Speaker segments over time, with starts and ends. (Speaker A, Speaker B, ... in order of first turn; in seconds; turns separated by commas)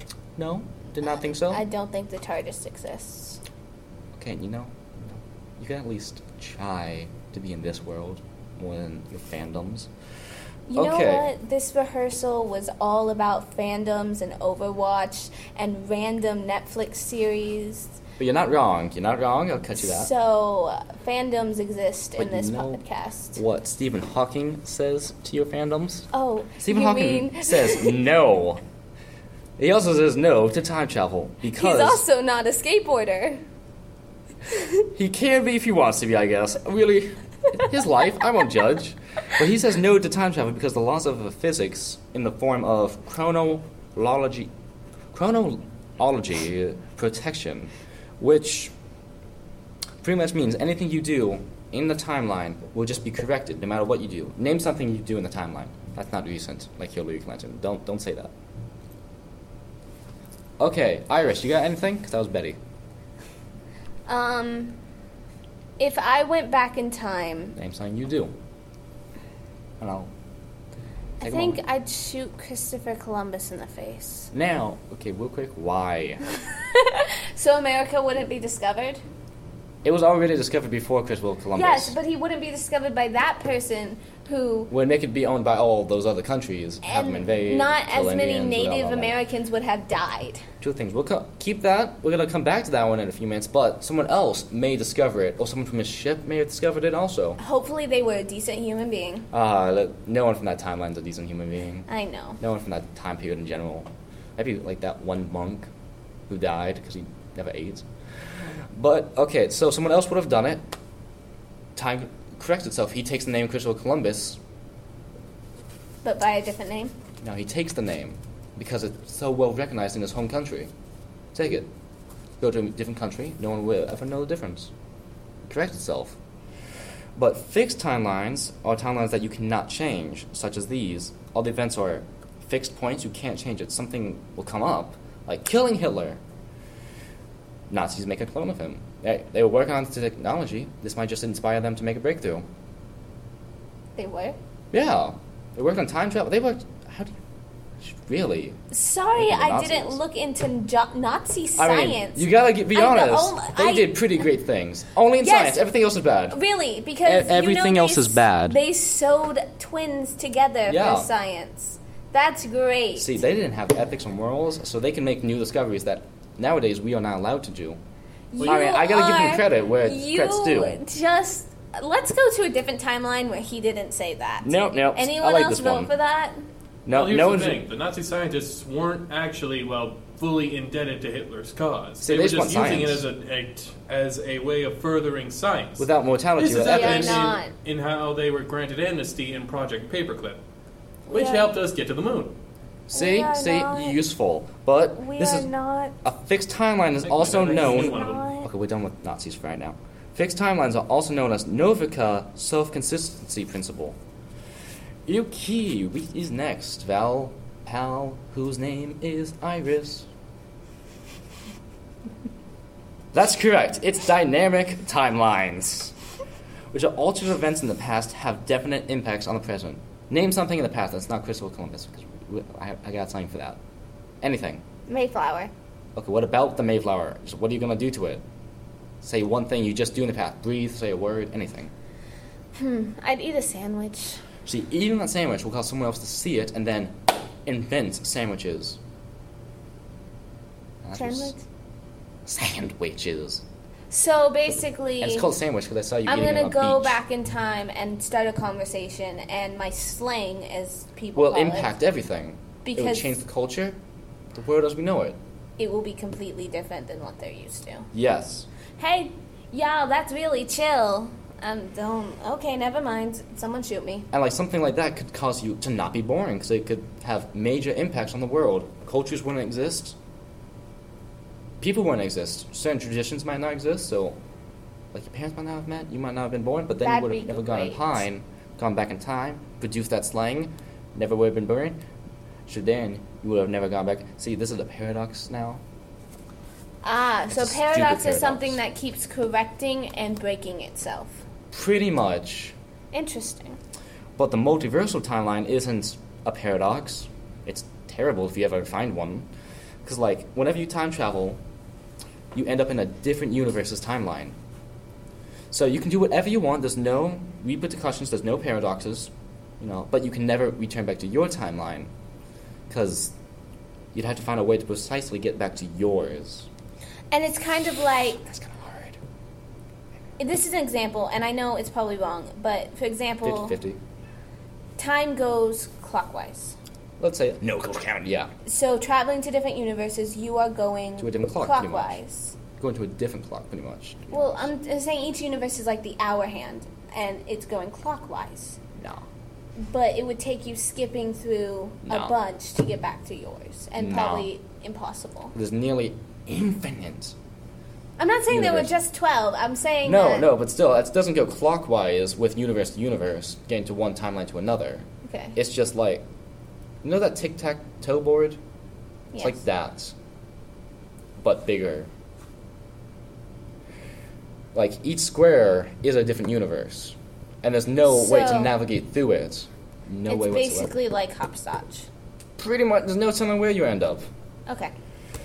Speaker A: 0.4-1.6, Speaker B: 1.0-3.4, Speaker A: 4.1-9.9, Speaker B: 10.7-18.0, Speaker A: 10.7-11.3, Speaker A: 18.2-20.1, Speaker B: 19.7-23.4, Speaker A: 22.2-22.8, Speaker A: 23.3-26.1, Speaker B: 26.1-28.0, Speaker A: 26.6-28.6, Speaker A: 29.6-32.0, Speaker B: 31.5-33.4, Speaker B: 34.5-34.8, Speaker A: 34.9-44.5, Speaker A: 45.1-48.7, Speaker A: 50.0-58.3, Speaker A: 60.6-62.6, Speaker B: 64.1-64.8, Speaker B: 65.8-67.5, Speaker A: 67.5-68.3, Speaker A: 69.8-70.1, Speaker B: 71.2-74.3, Speaker A: 71.2-71.6, Speaker A: 74.3-76.2, Speaker B: 76.4-79.0, Speaker A: 79.8-82.0, Speaker B: 81.5-84.7, Speaker A: 84.7-89.2, Speaker B: 86.8-90.4, Speaker A: 90.6-97.4, Speaker B: 97.4-99.3, Speaker A: 99.3-101.9, Speaker B: 101.9-102.4, Speaker A: 102.4-105.7, Speaker A: 106.3-107.8, Speaker A: 108.7-110.6, Speaker A: 111.8-114.4, Speaker B: 116.0-116.9, Speaker A: 117.2-120.7, Speaker A: 121.3-121.7, Speaker A: 122.4-124.7, Speaker A: 125.5-126.2, Speaker A: 127.2-136.2, Speaker A: 137.7-142.4, Speaker B: 143.9-144.4, Speaker A: 144.7-147.1, Speaker A: 147.8-148.6, Speaker B: 148.7-154.0, Speaker A: 149.1-150.0, Speaker A: 151.6-156.4, Speaker B: 155.2-155.7, Speaker B: 156.3-163.2, Speaker A: 157.0-158.6, Speaker A: 160.7-161.1, Speaker A: 162.9-167.8, Speaker B: 168.3-176.4, Speaker C: 168.4-168.6, Speaker A: 168.4-170.8, Speaker A: 174.4-175.9, Speaker A: 176.8-177.6, Speaker C: 176.9-190.4, Speaker A: 182.0-183.0, Speaker A: 185.8-187.3, Speaker B: 186.7-187.5, Speaker B: 191.1-191.5, Speaker C: 191.1-192.3, Speaker A: 192.9-195.5, Speaker B: 192.9-194.0, Speaker B: 194.9-195.9, Speaker A: 196.0-203.9, Speaker C: 197.0-198.3, Speaker B: 197.8-198.5, Speaker A: 205.1-210.1, Speaker A: 213.1-215.9, Speaker A: 216.7-223.6, Speaker A: 224.2-224.6, Speaker B: 224.9-225.5, Speaker A: 225.9-228.2, Speaker A: 229.0-231.7, Speaker B: 232.5-234.2, Speaker A: 234.4-238.8, Speaker A: 240.8-241.3, Speaker B: 240.9-241.4, Speaker A: 242.2-243.4, Speaker B: 243.9-245.3, Speaker A: 245.0-247.0, Speaker B: 246.1-251.7, Speaker A: 251.1-253.8, Speaker B: 252.6-253.1, Speaker A: 254.3-255.2, Speaker B: 255.6-257.9, Speaker A: 257.9-258.5, Speaker B: 258.8-264.1, Speaker A: 264.1-270.0, Speaker A: 271.6-274.2, Speaker A: 274.9-281.8, Speaker B: 276.8-278.0, Speaker A: 282.5-285.6, Speaker B: 286.8-291.2, Speaker A: 287.3-288.6, Speaker A: 291.5-292.5, Speaker B: 292.9-293.6, Speaker A: 294.2-299.3, Speaker A: 299.8-301.4, Speaker A: 302.3-304.3, Speaker A: 305.5-311.9, Speaker A: 312.7-313.1, Speaker A: 313.9-316.5, Speaker B: 317.1-318.3, Speaker A: 318.2-319.0, Speaker B: 320.2-323.6, Speaker A: 323.2-323.8, Speaker B: 324.8-326.5, Speaker A: 327.0-328.3, Speaker B: 328.4-332.4, Speaker A: 331.0-332.0, Speaker A: 332.6-334.5, Speaker B: 334.1-338.6, Speaker A: 338.8-339.0, Speaker B: 339.6-345.3, Speaker A: 341.9-342.1, Speaker A: 343.8-344.3, Speaker A: 345.3-347.1, Speaker B: 348.0-350.3, Speaker A: 348.3-348.7, Speaker A: 349.8-356.0, Speaker B: 355.0-355.4, Speaker A: 356.8-358.4, Speaker B: 359.1-359.4, Speaker A: 359.2-359.9, Speaker A: 361.2-361.9, Speaker A: 364.5-370.8, Speaker B: 367.8-368.6, Speaker B: 370.1-371.9, Speaker A: 372.4-374.1, Speaker B: 374.5-374.7